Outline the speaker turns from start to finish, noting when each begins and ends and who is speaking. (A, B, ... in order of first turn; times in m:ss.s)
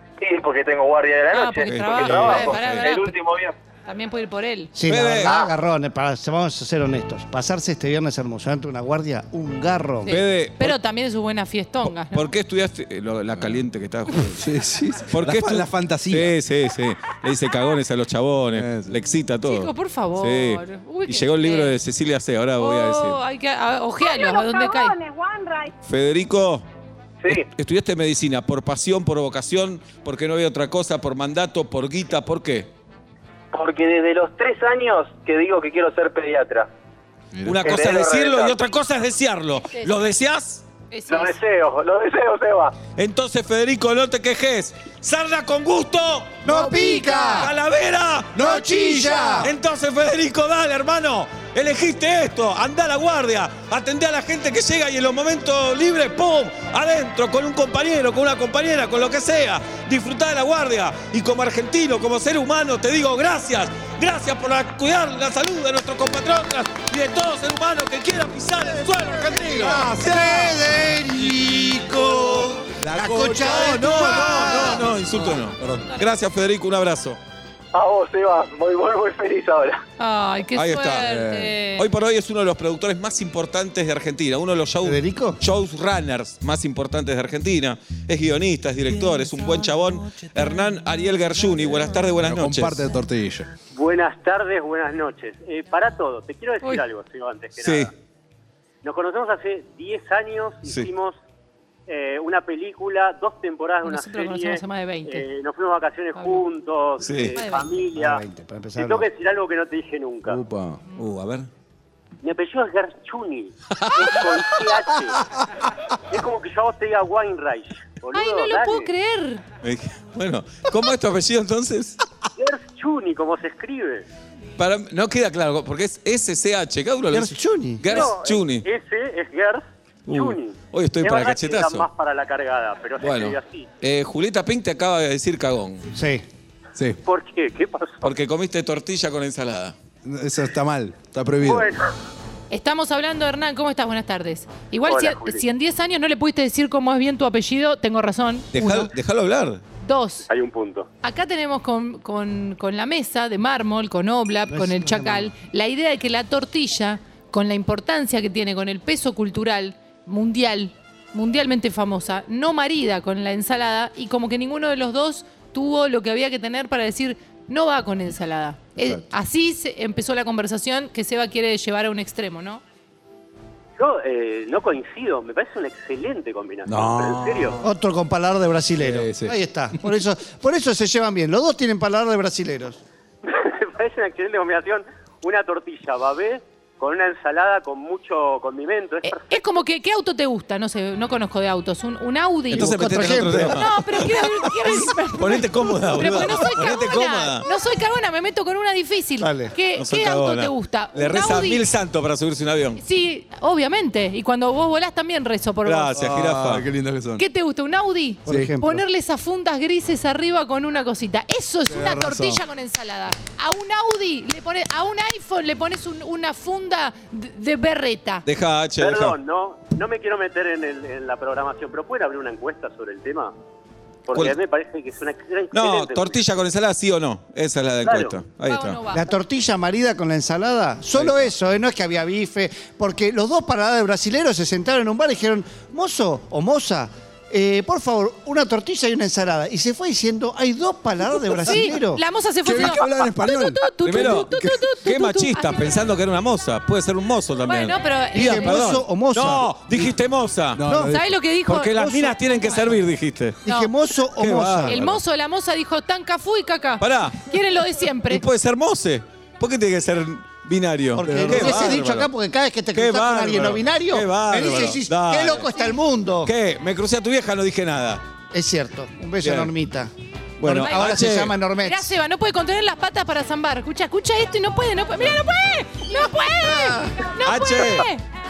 0:00.2-0:03.6 A
0:01.3-0:03.2 B
0:01.6-0:02.9 C
0:03.9-0:04.7 B
0:04.8-0:10.1 D
0:04.9-0:05.3 C
0:05.2-0:05.5 A
0:10.0-0:12.3 B
0:10.1-0:10.8 C
0:12.1-0:14.4 C
0:14.3-0:16.4 E
0:15.1-0:23.2 C
0:18.5-0:18.9 E
0:19.5-0:21.8 B
0:22.6-0:25.0 B
0:25.8-0:26.6 C
0:27.3-0:32.7 C
0:33.5-0:36.7 A
0:37.3-0:37.7 E
0:37.4-0:40.6 C
0:37.6-0:38.7 A
0:40.9-0:41.4 B
0:41.1-0:42.8 A
0:43.0-0:46.4 C
0:46.4-0:47.5 D
0:46.5-0:47.5 B
0:47.4-0:48.8 C
0:48.4-0:49.5 D
0:49.4-1:10.2 C
1:09.5-1:14.9 D
1:12.8-1:14.8 E
1:13.4-1:17.2 C
1:15.3-1:15.9 E
1:17.7-1:19.8 A
1:20.0-1:21.9 B
1:20.6-1:21.1 C
1:21.0-1:21.6 E
1:21.8-1:32.8 C
1:24.8-1:25.4 D
1:32.2-1:33.5 E
1:33.7-1:37.9 F
1:37.6-1:37.9 C
1:38.8-1:41.2 F
1:41.9-1:48.2 F
1:43.8-1:45.2 B
1:46.2-1:46.4 B
1:47.0-1:47.4 C
1:47.4-1:47.7 B
1:48.0-1:49.1 D
1:48.8-1:50.4 F
1:50.3-1:50.8 E
1:51.0-1:51.5 C
1:52.2-1:55.2 F
1:53.8-1:54.3 C
1:56.1-1:58.9 F
1:58.1-1:59.4 B
1:59.6-2:02.0 C
2:02.4-2:04.1 F
2:04.6-2:08.7 C
2:07.1-2:07.9 D
2:07.9-2:13.7 F
2:10.1-2:11.9 C
2:13.0-2:15.9 C
2:15.9-2:16.2 D
2:17.0-2:18.0 F
2:18.0-2:19.8 C
2:20.0-2:21.7 E
2:21.4-2:21.8 F
2:22.5-2:28.9 B
2:24.8-2:25.4 F
2:28.5-2:29.6 C
2:29.8-2:30.3 B
2:30.3-2:30.9 F
2:31.0-2:52.6 B
2:34.5-2:35.3 D
2:53.8-2:57.6 F
2:56.7-2:57.6 E
2:57.6-3:02.8 D
2:58.8-2:59.4 E
3:03.2-3:09.4 F
3:09.0-3:21.6 B
3:12.5-3:17.4 C
3:12.5-3:13.6 D
3:19.2-3:19.5 D
3:19.8-3:22.8 C
3:22.8-3:25.9 B
3:25.6-3:26.7 C
3:26.0-3:27.2 E
3:27.2-3:38.3 B
3:28.3-3:28.8 D
3:28.3-3:28.5 E
3:31.7-3:32.4 E
3:38.3-3:39.2 C
3:38.8-3:43.3 F
3:44.1-3:46.2 F
3:45.5-3:48.8 C
3:47.8-3:48.2 F
3:48.4-3:49.1 B
3:48.9-4:02.0 D
4:01.4-4:05.7 B
4:02.4-4:03.6 E
4:03.8-4:10.6 C
4:07.5-4:08.6 B
4:08.1-4:09.6 D
4:10.6-4:11.1 E
4:10.7-4:11.0 D
4:10.8-4:12.7 B
4:11.5-4:13.4 C
4:11.8-4:12.2 D
4:13.4-4:14.8 D
4:13.5-4:13.7 B
4:14.2-4:15.0 C
4:14.7-4:18.2 B
4:16.8-4:17.3 C
4:18.1-4:22.1 C
4:21.0-4:26.3 D
4:21.0-4:21.8 E
4:22.7-4:25.5 C
4:26.2-4:28.0 C
4:28.3-4:31.9 D
4:29.2-4:29.5 C
4:30.4-4:31.4 C
4:30.6-4:31.0 B
4:31.6-4:38.0 B
4:36.4-4:37.0 D
4:37.2-4:37.9 C